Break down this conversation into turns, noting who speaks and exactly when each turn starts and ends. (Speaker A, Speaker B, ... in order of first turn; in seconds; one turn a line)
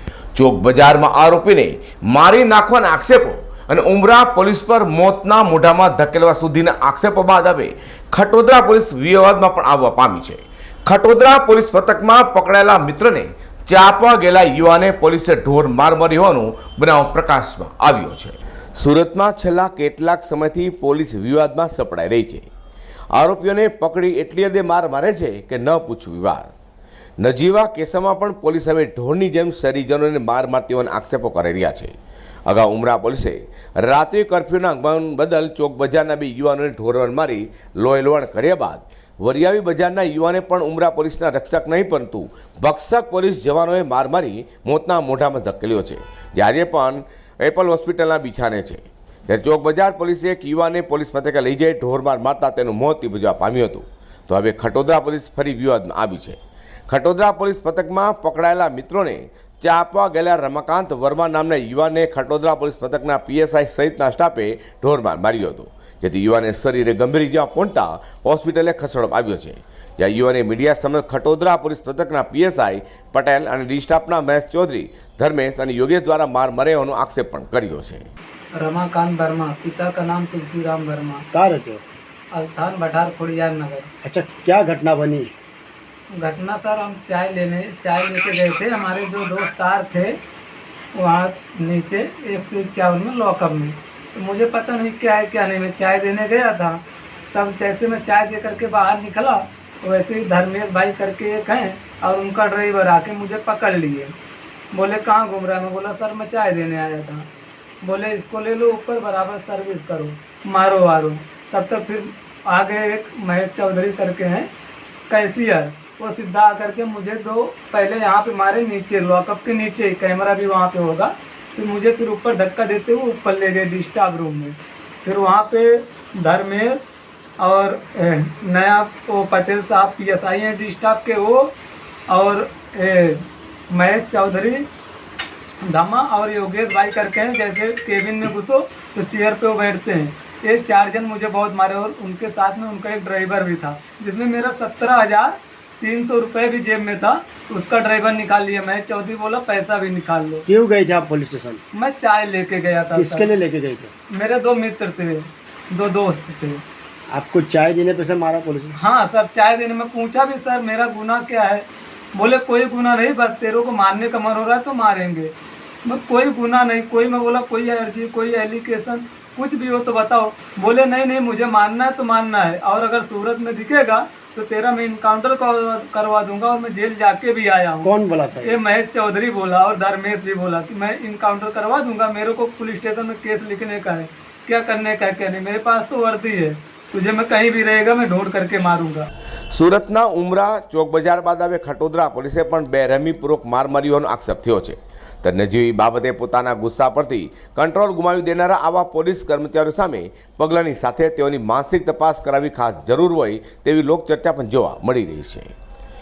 Speaker A: 0.3-22.5
Speaker A: 23.1-26.5
Speaker A: 27.2-31.9
Speaker A: 32.5-78.0
Speaker B: 78.5-81.2
Speaker C: 81.3-81.8
Speaker B: 82.3-83.9
Speaker C: 84.0-85.3
Speaker B: 86.1-90.2
Speaker B: 90.9-104.1
Speaker B: 104.7-107.3
Speaker B: 107.8-114.5
Speaker B: 115.1-126.8
Speaker B: 127.4-131.5
Speaker B: 132.1-134.7
Speaker B: 135.6-150.4
Speaker C: 150.5-151.6
Speaker B: 151.7-153.3
Speaker C: 152.9-153.9
Speaker B: 154.1-156.6
Speaker C: 157.1-158.7
Speaker B: 158.7-165.3
Speaker B: 165.8-189.1
Speaker C: 177.8-178.6
Speaker A: 189.5-205.5